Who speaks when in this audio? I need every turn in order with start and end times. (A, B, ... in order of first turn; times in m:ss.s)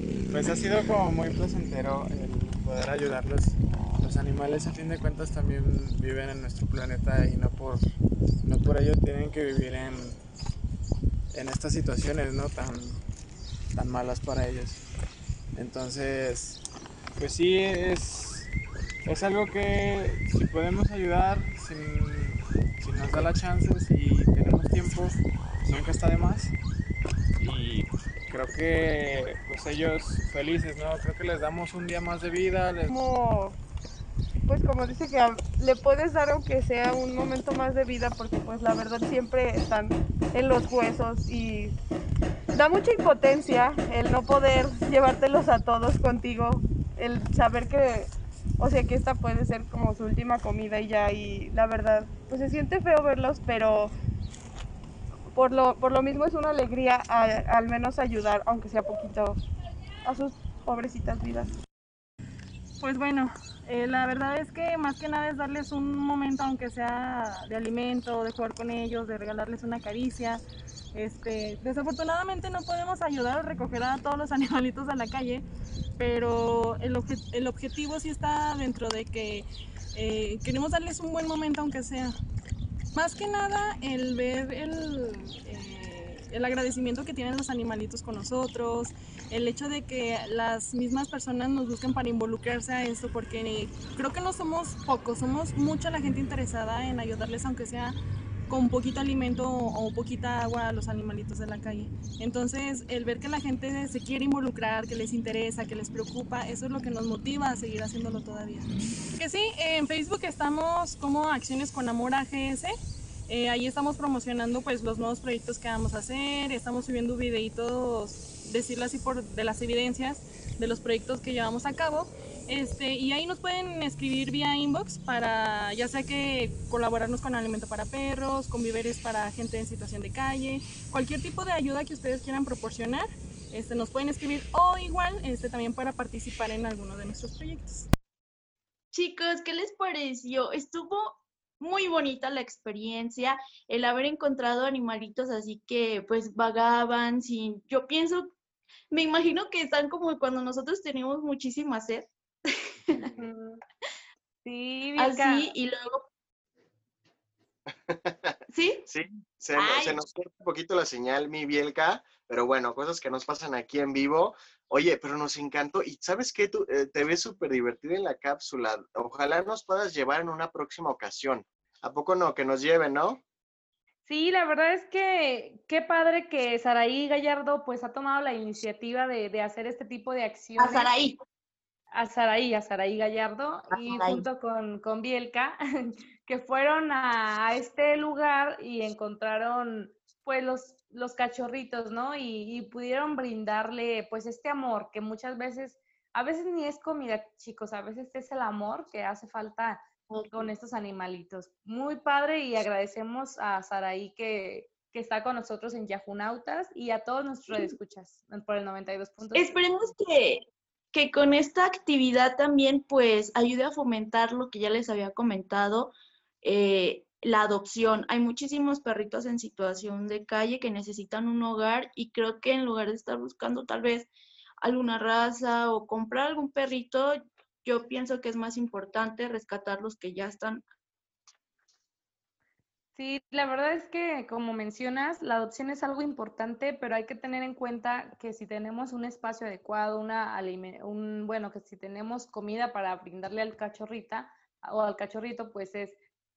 0:00.3-0:07.8 A
0:08.4-0:10.2 A
0:11.3-0:13.0 A
0:13.7-0:14.8 A
0:15.5-0:16.6 A
0:17.2-0:18.5 A
0:19.0-0:26.5 A
0:27.4-0:32.9 A
0:32.9-0:33.6 B
0:34.5-0:41.7 B
0:42.5-0:53.9 B
0:55.3-0:59.4 B
1:00.0-1:01.5 B
1:02.8-1:10.4 C
1:10.9-1:15.4 C
1:16.0-1:22.2 C
1:22.9-1:38.0 C
1:38.5-1:52.7 C
1:53.3-2:17.8 C
2:18.9-2:28.3 D
2:28.9-2:33.0 D
2:33.0-2:33.6 E
2:34.4-2:35.5 E
2:35.0-2:36.0 D
2:37.9-2:38.3 F
2:38.5-2:38.9 D
2:38.9-2:53.2 F
2:39.5-2:40.0 D
2:54.0-3:00.9 E
3:00.6-3:01.2 D
3:01.9-3:29.6 E
3:03.7-3:04.2 D
3:20.1-3:20.5 D
3:29.3-3:44.1 D
3:44.6-3:50.6 D
3:52.9-4:06.0 E